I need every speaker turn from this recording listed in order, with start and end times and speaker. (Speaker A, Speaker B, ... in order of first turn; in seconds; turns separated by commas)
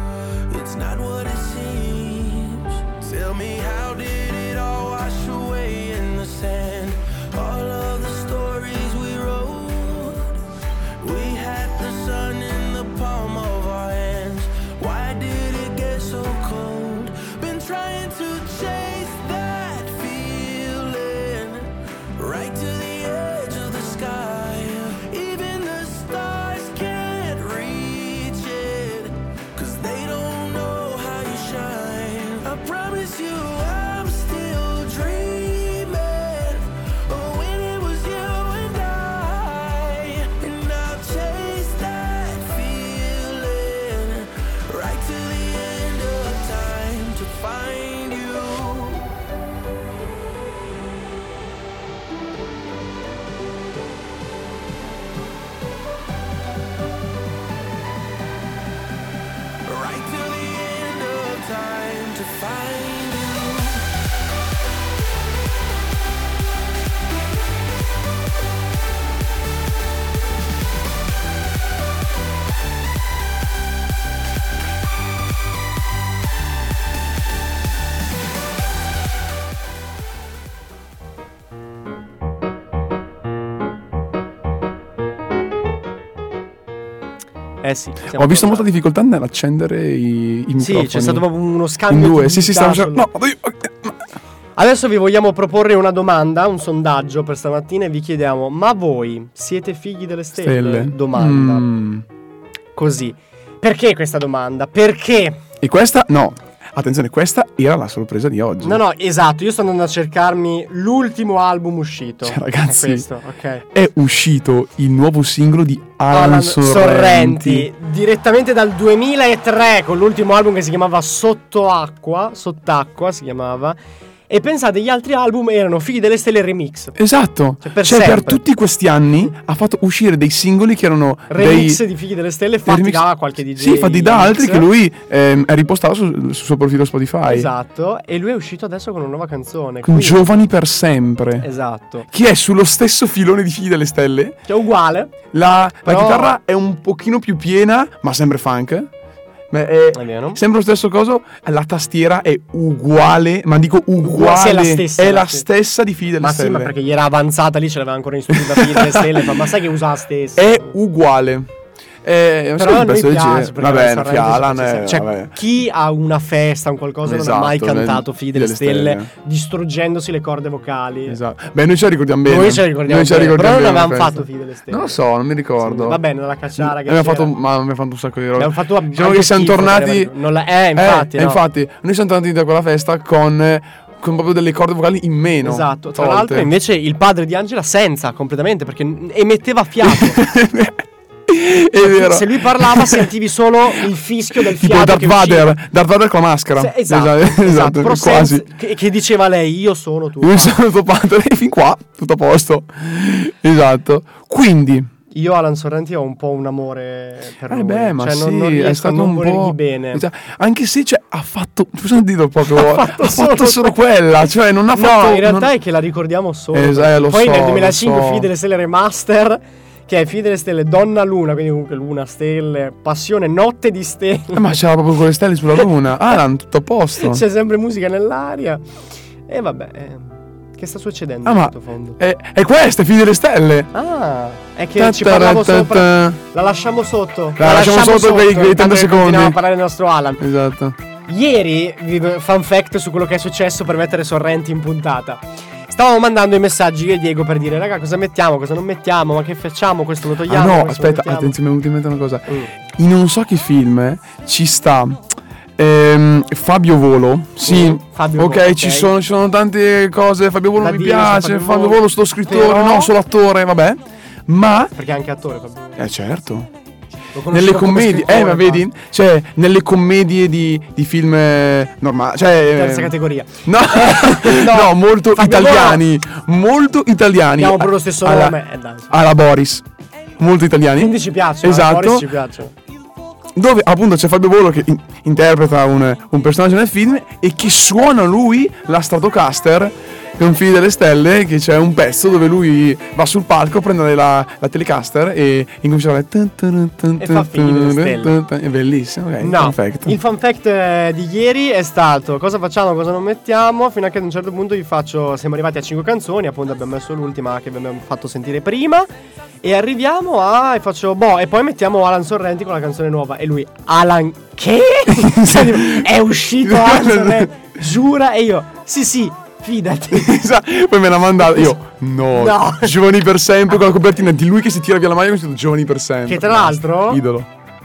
Speaker A: 0.5-10.4, Speaker A: 11.0-49.1, Speaker A: 59.6-63.9, Speaker B: 87.6-88.7, Speaker C: 88.1-91.2, Speaker B: 90.6-93.1, Speaker C: 91.9-94.0, Speaker B: 94.6-101.7, Speaker C: 100.4-102.0, Speaker B: 102.7-105.4, Speaker C: 105.6-108.8, Speaker B: 108.6-113.6, Speaker C: 112.2-113.0, Speaker C: 113.7-117.7, Speaker B: 116.1-123.8, Speaker B: 124.3-126.9, Speaker C: 127.0-131.8, Speaker B: 127.6-128.4, Speaker B: 131.3-134.7, Speaker C: 132.6-137.5, Speaker B: 137.2-140.3, Speaker C: 139.8-141.5, Speaker B: 141.4-142.1, Speaker C: 142.1-144.4, Speaker B: 144.5-145.1, Speaker C: 145.3-148.9, Speaker B: 145.8-146.4, Speaker C: 149.5-156.7, Speaker B: 149.9-150.4, Speaker B: 154.0-155.4, Speaker B: 156.2-160.7, Speaker C: 158.3-159.3, Speaker C: 160.4-161.5, Speaker C: 162.0-165.3, Speaker B: 162.6-171.2, Speaker C: 167.0-169.1, Speaker C: 171.1-176.0, Speaker B: 172.2-175.0, Speaker B: 175.6-177.3, Speaker C: 176.6-180.1, Speaker B: 178.3-181.4, Speaker C: 180.7-186.5, Speaker B: 185.4-190.2, Speaker C: 189.8-193.1, Speaker B: 191.8-195.6, Speaker C: 194.3-198.5, Speaker B: 196.6-200.6, Speaker C: 200.2-204.9, Speaker B: 205.1-210.0, Speaker C: 207.5-215.5, Speaker B: 212.4-213.8, Speaker B: 214.7-224.4, Speaker C: 216.5-218.3, Speaker C: 224.3-227.2, Speaker B: 227.0-228.6, Speaker B: 229.3-232.0, Speaker C: 231.2-233.7, Speaker B: 233.7-240.2, Speaker C: 234.8-236.2, Speaker C: 237.4-239.4, Speaker C: 240.2-240.8, Speaker B: 241.1-251.3, Speaker C: 250.3-264.7, Speaker B: 257.4-258.9, Speaker B: 260.6-262.9, Speaker B: 264.8-265.8, Speaker C: 265.8-266.5, Speaker B: 267.1-268.6, Speaker C: 267.3-278.4, Speaker B: 272.5-275.8, Speaker B: 277.4-278.9, Speaker C: 278.9-279.6, Speaker C: 280.2-282.1, Speaker B: 280.8-282.5, Speaker C: 283.3-300.0, Speaker B: 297.0-298.1, Speaker B: 299.2-308.9, Speaker B: 309.4-320.2, Speaker C: 314.9-317.4, Speaker C: 319.9-327.3, Speaker B: 321.2-321.5, Speaker B: 322.1-322.7, Speaker B: 326.1-327.0